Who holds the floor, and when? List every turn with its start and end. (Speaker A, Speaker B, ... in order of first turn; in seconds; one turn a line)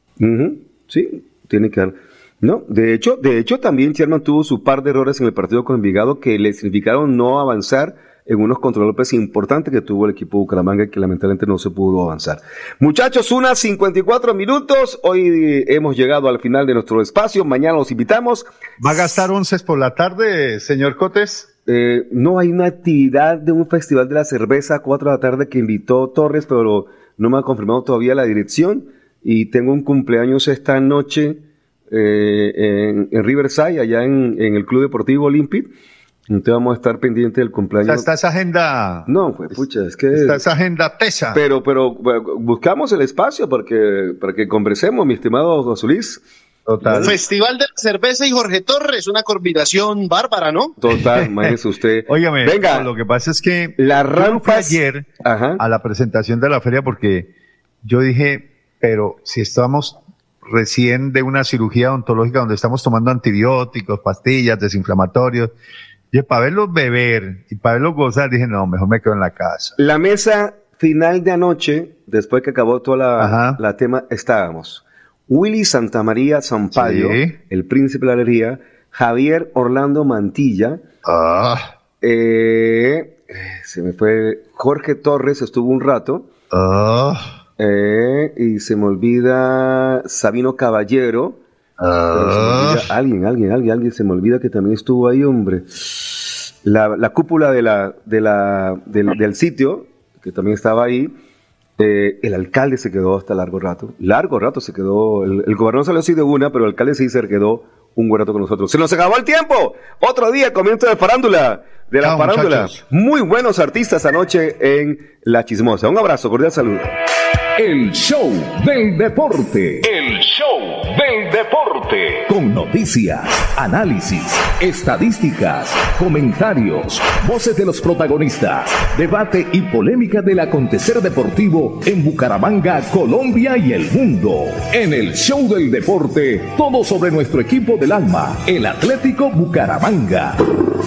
Speaker A: 0.2-18.5
Speaker B: 18.8-21.5
Speaker A: 21.7-35.7
Speaker A: 36.3-38.1
Speaker B: 37.8-41.4
Speaker A: 39.1-40.4
Speaker A: 41.3-46.2
Speaker B: 46.7-47.1
Speaker A: 46.8-47.2
Speaker C: 47.0-50.8
Speaker A: 50.8-52.9
Speaker B: 51.2-51.5
Speaker B: 52.1-57.3
Speaker A: 53.8-55.6
Speaker B: 57.8-65.5
Speaker B: 66.1-69.8
Speaker A: 69.8-80.8
Speaker B: 73.2-73.6
Speaker B: 76.7-77.4
Speaker B: 81.0-81.7
Speaker A: 82.0-86.3
Speaker B: 86.5-87.3
Speaker A: 87.6-91.4
Speaker B: 91.8-92.9
Speaker A: 92.1-101.1
Speaker A: 101.8-117.0
Speaker B: 112.0-112.8
Speaker D: 117.6-119.9
Speaker E: 119.8-122.3
Speaker D: 122.3-140.4